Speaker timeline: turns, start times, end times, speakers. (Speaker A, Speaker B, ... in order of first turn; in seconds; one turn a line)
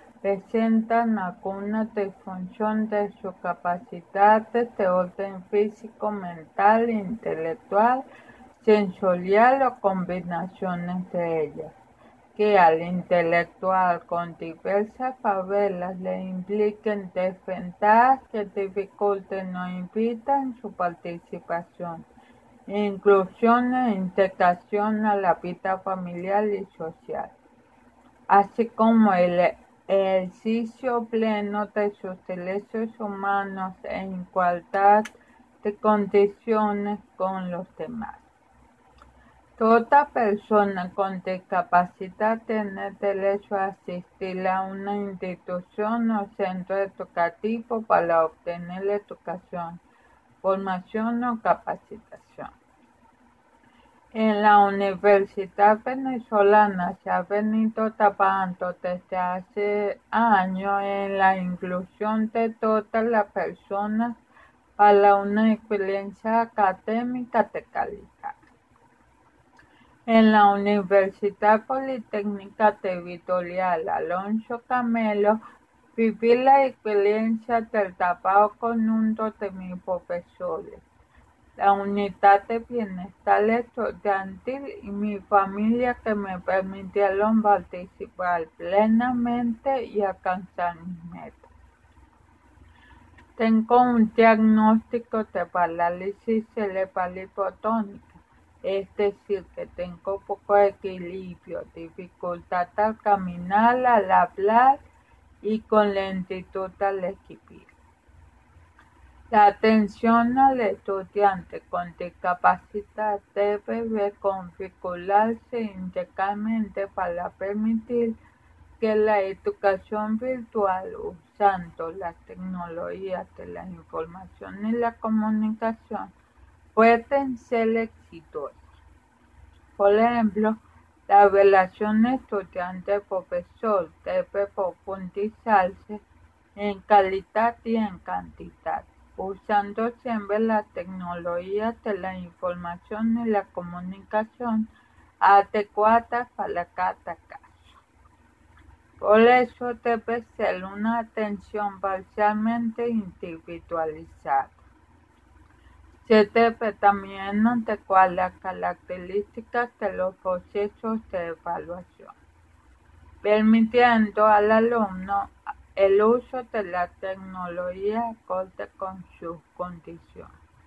Speaker A: 0.2-8.0
Speaker A: 8.6-11.7
Speaker A: 12.3-22.1
Speaker A: 22.7-27.3
Speaker A: 28.3-38.2
Speaker A: 39.6-49.8
Speaker A: 50.4-52.5
Speaker A: 54.1-64.2
Speaker A: 64.8-68.4
Speaker A: 70.1-75.4
Speaker A: 76.0-80.8
Speaker A: 81.6-91.5
Speaker A: 93.4-104.8
Speaker A: 105.4-107.7
Speaker A: 109.3-118.2
Speaker A: 118.8-126.1
Speaker A: 126.8-128.8
Speaker A: 129.8-136.0
Speaker A: 136.6-144.7
Speaker A: 145.2-147.8
Speaker A: 149.0-154.7
Speaker A: 156.0-162.2
Speaker A: 163.2-170.3